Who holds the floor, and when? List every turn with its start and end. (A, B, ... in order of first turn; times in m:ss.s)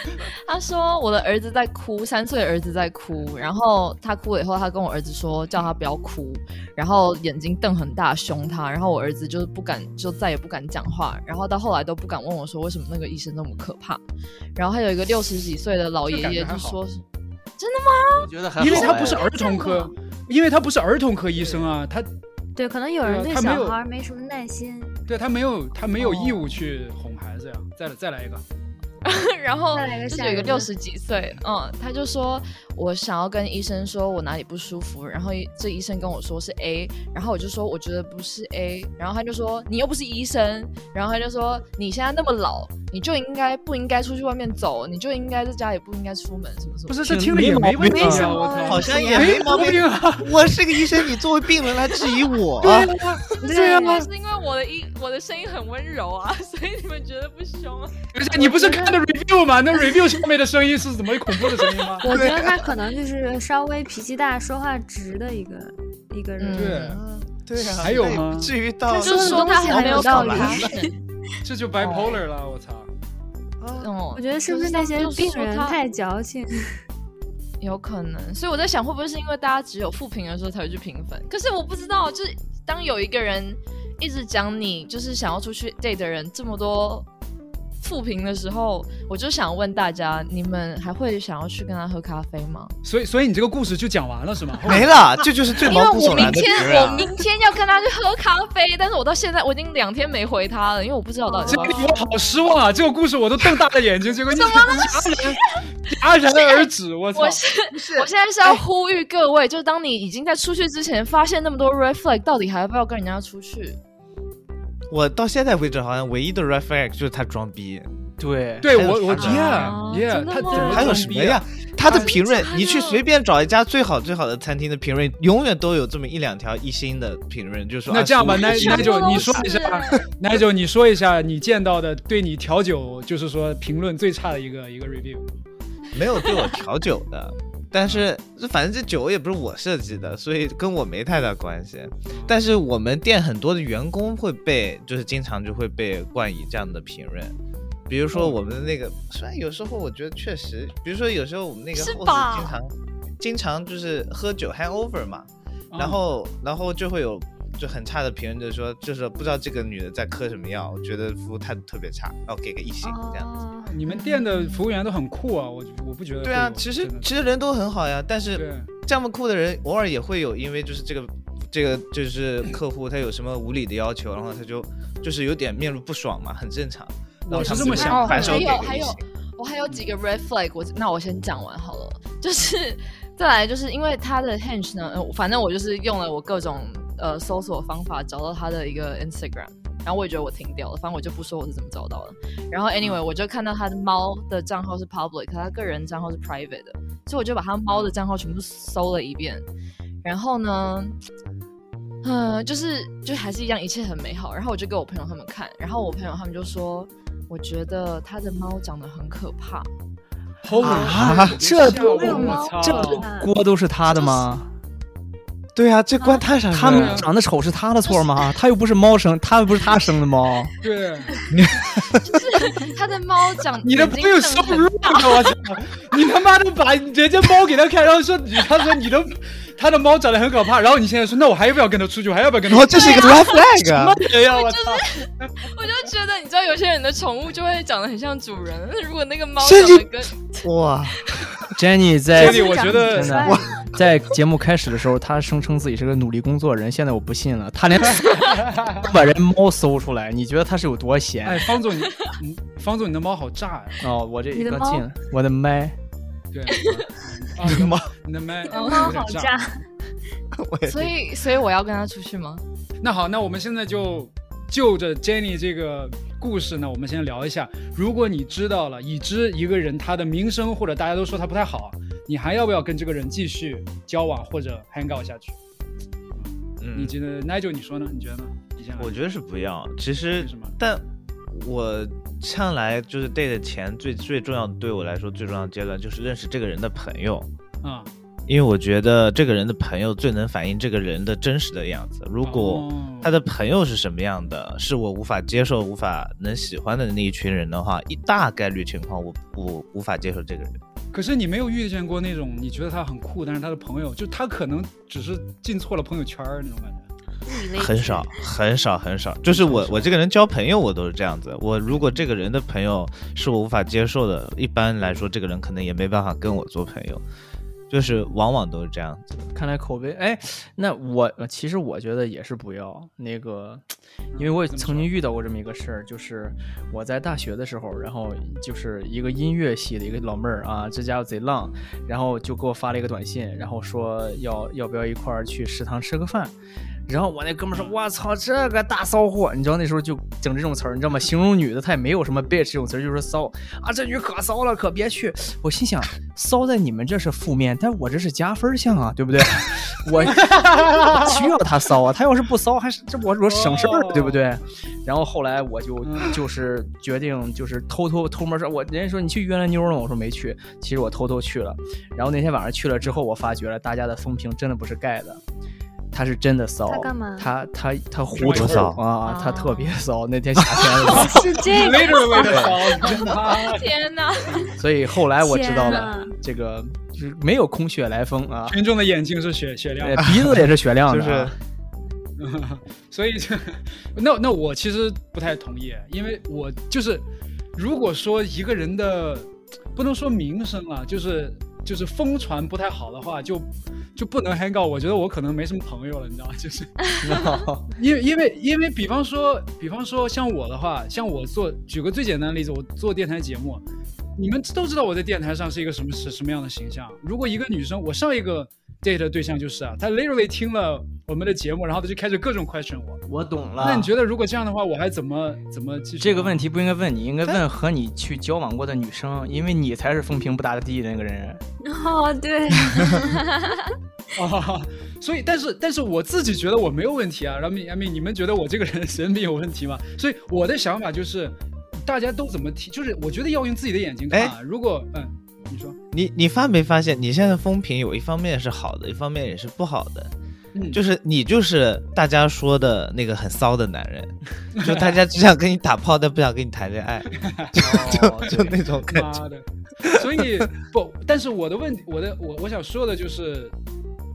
0:00.2-0:14.0 A
0:14.6-0:17.0 A
0:16.0-0:16.8 B
0:17.6-0:19.9 A
0:18.1-0:19.3 C
0:18.6-0:22.1 B
0:19.0-0:19.7 D
0:22.6-0:25.0 D
0:23.0-0:23.8 B
0:25.1-0:28.4 B
0:26.0-0:26.4 A
0:29.0-0:47.1 A
0:29.7-0:30.7 D
0:46.9-0:51.2 B
0:47.1-0:48.4 C
0:47.8-0:52.9 E
0:47.9-0:49.3 D
0:48.0-0:49.5 A
0:52.6-0:53.4 B
0:53.4-0:58.0 A
0:53.4-0:54.1 D
0:58.1-1:02.1 B
0:58.4-0:59.1 D
1:02.0-1:06.8 D
1:02.1-1:02.7 E
1:06.4-1:07.0 A
1:06.6-1:07.0 B
1:06.8-1:10.7 E
1:07.6-1:08.5 B
1:08.9-1:10.9 A
1:08.9-1:10.9 D
1:11.4-1:12.9 B
1:13.6-1:13.9 E
1:13.8-1:15.8 A
1:14.2-1:16.5 D
1:17.6-1:27.1 A
1:27.8-1:32.7 A
1:32.8-1:35.2 B
1:34.6-1:37.1 E
1:35.6-1:42.0 A
1:41.3-1:42.0 D
1:41.5-1:47.4 B
1:44.3-1:45.4 A
1:46.4-1:53.8 A
1:47.7-1:48.6 E
1:54.9-1:57.9 E
1:58.2-1:58.8 C
1:58.6-2:01.4 B
1:58.7-1:59.7 E
1:59.2-2:01.1 A
2:00.5-2:09.5 E
2:01.9-2:03.0 A
2:07.9-2:15.3 B
2:08.4-2:10.0 A
2:15.9-2:27.4 E
2:17.8-2:18.1 B
2:22.1-2:22.4 B
2:27.9-2:43.3 E
2:28.1-2:28.5 B
2:31.7-2:32.6 A
2:35.7-2:36.0 B
2:42.8-2:44.5 D
2:43.7-2:47.1 B
2:43.9-2:44.6 A
2:46.2-2:59.0 E
2:48.4-2:48.7 B
2:57.2-2:58.3 B
2:57.5-3:19.5 A
2:57.6-2:58.6 C
3:17.7-3:18.0 B
3:20.0-3:21.0 A
3:22.0-3:29.7 A
3:30.4-3:33.1 B
3:30.6-3:31.4 E
3:30.6-3:34.5 C
3:31.7-3:33.3 D
3:32.0-3:32.5 A
3:33.9-3:34.2 A
3:35.6-3:37.0 E
3:36.5-3:40.6 C
3:36.8-3:37.1 B
3:37.8-3:38.2 A
3:40.6-3:41.1 B
3:41.3-3:42.0 E
3:42.0-3:45.3 A
3:43.6-3:55.3 B
3:52.5-3:54.0 E
3:52.7-3:53.4 A
3:54.1-4:01.3 A
3:59.4-4:01.0 E
4:01.6-4:11.5 C
4:02.1-4:03.6 D
4:02.3-4:03.1 B
4:03.2-4:03.5 E
4:08.1-4:08.8 B
4:11.2-4:13.9 B
4:13.8-4:15.8 C
4:14.3-4:14.8 D
4:16.3-4:19.4 B
4:16.5-4:16.8 A
4:17.4-4:17.9 E
4:18.5-4:19.6 D
4:18.5-4:19.0 A
4:20.3-4:20.9 E
4:20.6-4:22.4 A
4:22.8-4:35.4 B
4:36.2-4:39.0 B
4:36.6-4:37.0 E
4:38.8-4:47.3 E
4:40.2-4:40.6 B
4:47.6-4:47.9 B
4:48.3-5:00.6 E
4:52.2-4:53.1 B
5:00.9-5:06.9 B
5:07.5-5:17.0 E
5:09.4-5:09.8 B
5:17.7-5:19.2 E
5:19.3-5:36.3 C
5:24.1-5:24.9 B
5:36.9-6:05.2 C
5:37.5-5:37.8 B
5:50.1-5:50.8 B
5:53.2-5:54.2 B
5:55.8-5:56.2 B
6:05.9-6:11.3 C
6:06.7-6:07.3 D
6:08.2-6:08.6 B
6:08.2-6:08.8 E
6:09.0-6:09.8 A
6:10.8-6:13.0 D
6:10.9-6:13.7 B
6:12.2-6:12.6 E
6:12.8-6:14.6 A
6:14.3-6:14.6 B
6:14.6-6:18.6 C
6:15.2-6:16.1 D
6:18.5-6:20.0 B
6:19.8-6:21.4 C
6:20.0-6:20.3 E
6:20.9-6:21.4 E
6:22.2-6:27.0 B
6:27.6-6:36.8 B
6:36.9-6:37.7 C
6:37.7-6:43.6 B
6:44.2-6:53.0 B
6:53.1-6:53.9 C
6:53.6-6:56.5 B
6:56.0-7:01.4 C
7:01.6-7:03.6 D
7:04.2-7:15.8 B
7:15.9-7:20.1 E
7:20.6-7:20.8 B
7:20.7-7:29.2 E
7:24.6-7:25.0 B
7:27.2-7:27.6 B
7:27.6-7:28.6 C
7:28.3-7:33.6 B